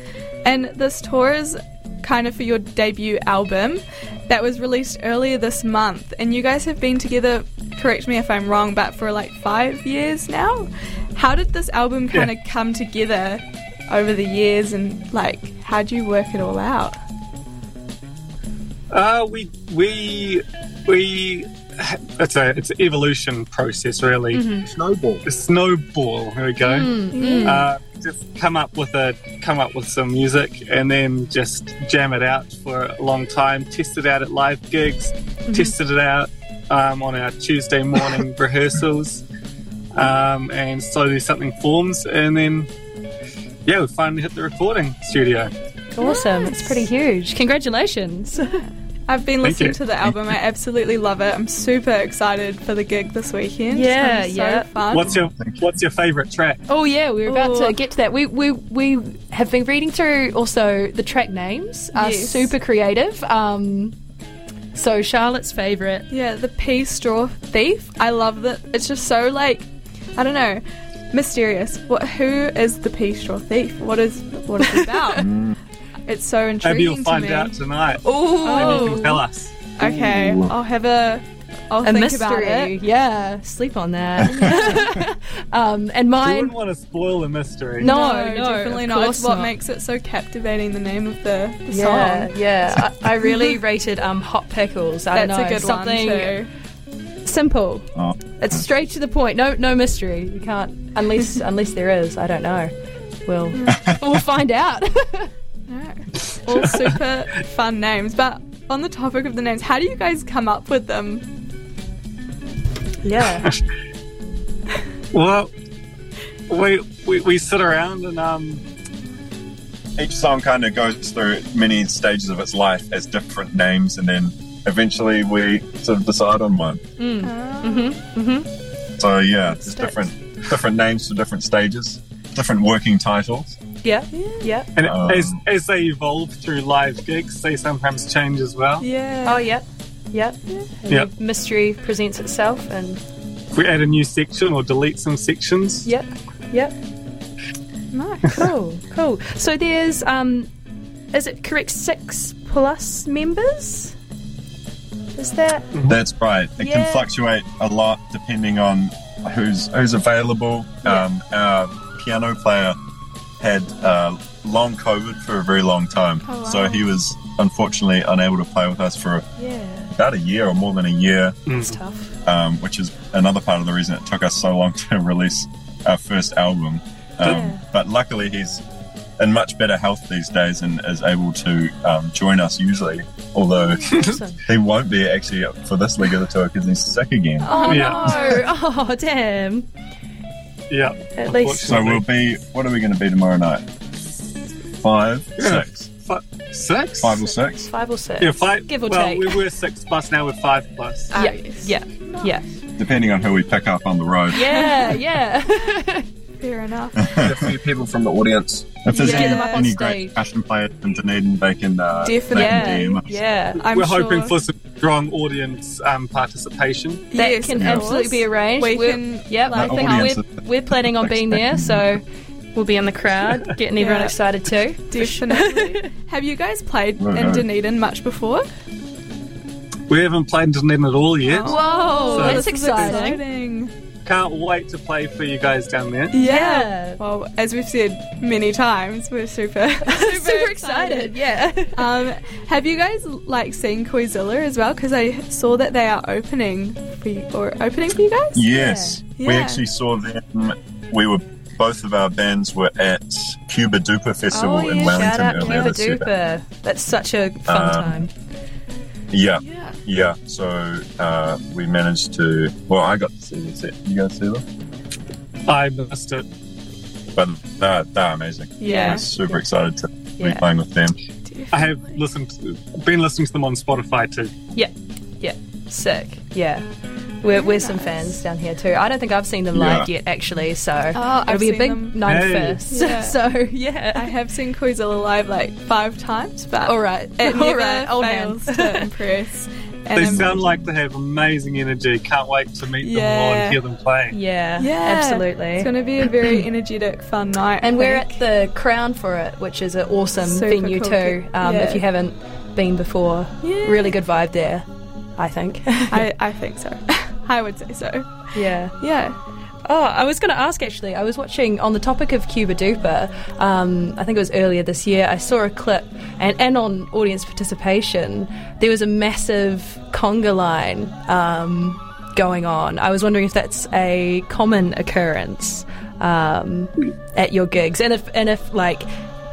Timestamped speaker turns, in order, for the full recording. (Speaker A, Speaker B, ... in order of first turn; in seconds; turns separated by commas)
Speaker A: 0.4-17.0, Speaker B: 18.9-24.4, Speaker C: 24.3-24.7, Speaker D: 24.7-25.2, Speaker B: 25.2-39.2, Speaker C: 26.6-27.7, Speaker A: 27.1-27.7, Speaker C: 35.5-35.7, Speaker B: 39.9-42.7, Speaker B: 43.7-45.5, Speaker C: 45.9-48.6, Speaker A: 46.0-46.8, Speaker A: 49.1-55.1, Speaker B: 49.4-49.8, Speaker C: 53.7-54.7, Speaker B: 54.9-56.6, Speaker E: 55.0-55.6, Speaker C: 56.7-64.0, Speaker A: 57.2-57.8, Speaker A: 61.9-62.5, Speaker C: 64.7-66.1, Speaker A: 66.1-75.2, Speaker C: 74.6-75.2, Speaker E: 75.2-75.6, Speaker A: 76.1-77.6, Speaker B: 76.6-79.5, Speaker C: 78.0-79.2, Speaker A: 78.4-79.2, Speaker A: 79.8-82.8, Speaker E: 79.8-80.5, Speaker C: 81.8-86.5, Speaker E: 84.2-84.8, Speaker A: 84.3-85.0, Speaker B: 86.2-87.9, Speaker C: 87.8-89.5, Speaker A: 87.8-93.6, Speaker C: 91.7-96.3, Speaker A: 95.1-96.5, Speaker C: 97.2-97.9, Speaker E: 98.0-98.7, Speaker C: 98.4-102.7, Speaker C: 103.2-105.3, Speaker A: 103.5-103.9, Speaker A: 105.7-111.3, Speaker B: 106.5-106.9, Speaker C: 113.0-113.5, Speaker B: 115.1-115.5, Speaker B: 116.5-118.6, Speaker E: 120.0-126.8, Speaker C: 127.0-128.5, Speaker A: 127.2-128.0, Speaker E: 129.0-133.6, Speaker C: 129.5-130.0, Speaker C: 133.8-134.7, Speaker A: 134.1-134.5, Speaker B: 134.8-138.8, Speaker E: 134.8-135.4, Speaker A: 138.8-139.5, Speaker C: 139.2-143.0, Speaker B: 143.5-145.9, Speaker C: 145.8-146.7, Speaker A: 147.9-148.5, Speaker C: 148.3-150.5, Speaker C: 151.1-154.0, Speaker C: 155.2-155.7, Speaker E: 155.9-162.8, Speaker C: 156.6-157.1, Speaker E: 163.4-169.2, Speaker A: 166.2-166.9, Speaker C: 169.4-169.9, Speaker E: 169.9-171.4, Speaker B: 171.5-171.8, Speaker C: 171.5-172.1, Speaker E: 172.2-178.6, Speaker C: 177.2-177.6, Speaker E: 179.2-187.5, Speaker C: 183.9-184.4, Speaker B: 183.9-184.2, Speaker A: 187.4-188.5, Speaker C: 187.4-189.7, Speaker B: 187.7-188.4, Speaker B: 190.7-192.0, Speaker C: 191.2-191.7, Speaker E: 191.6-193.7, Speaker E: 194.8-195.9, Speaker B: 195.4-197.2, Speaker E: 197.0-197.7, Speaker C: 197.3-199.4, Speaker B: 198.2-201.2, Speaker C: 201.1-202.5, Speaker A: 201.1-202.3, Speaker E: 202.8-205.0, Speaker C: 204.3-206.1, Speaker A: 206.4-207.2, Speaker E: 207.0-207.6, Speaker D: 207.2-208.8, Speaker E: 208.8-213.2, Speaker A: 208.9-209.7, Speaker C: 208.9-210.2, Speaker A: 212.0-213.0, Speaker C: 212.3-213.6, Speaker A: 213.6-214.4, Speaker B: 213.7-217.0, Speaker A: 217.1-220.2, Speaker C: 217.2-222.0, Speaker E: 217.5-217.9, Speaker E: 219.5-222.0, Speaker C: 222.5-225.9, Speaker A: 223.7-224.2, Speaker A: 224.9-228.5, Speaker E: 227.0-227.5, Speaker B: 229.9-233.0, Speaker A: 231.2-233.7, Speaker C: 231.4-233.2, Speaker B: 234.0-236.2, Speaker A: 236.1-241.2, Speaker C: 236.2-237.0, Speaker C: 239.8-241.9, Speaker A: 241.7-248.5, Speaker E: 248.3-256.1, Speaker C: 248.5-249.0, Speaker A: 249.2-249.6, Speaker C: 254.3-258.1, Speaker E: 257.5-258.0, Speaker E: 259.1-264.4, Speaker A: 259.4-259.8, Speaker B: 265.5-266.2, Speaker E: 267.1-271.0, Speaker A: 268.6-269.0, Speaker C: 268.6-269.1, Speaker C: 270.2-270.4, Speaker A: 271.2-271.9, Speaker B: 271.5-274.3, Speaker C: 274.5-276.6, Speaker C: 277.2-284.1, Speaker A: 277.3-278.1, Speaker E: 279.5-279.9, Speaker A: 280.9-282.0, Speaker B: 282.0-282.6, Speaker A: 282.6-283.2, Speaker A: 283.9-290.5, Speaker C: 286.6-288.9, Speaker B: 289.9-294.1, Speaker E: 290.1-290.4, Speaker A: 292.8-293.6, Speaker C: 294.1-295.7, Speaker A: 294.6-298.2, Speaker C: 297.6-304.6, Speaker A: 300.2-301.9, Speaker A: 303.4-303.9, Speaker C: 305.2-306.1, Speaker A: 305.9-308.1, Speaker C: 308.3-308.8, Speaker A: 308.8-309.2, Speaker C: 309.6-328.9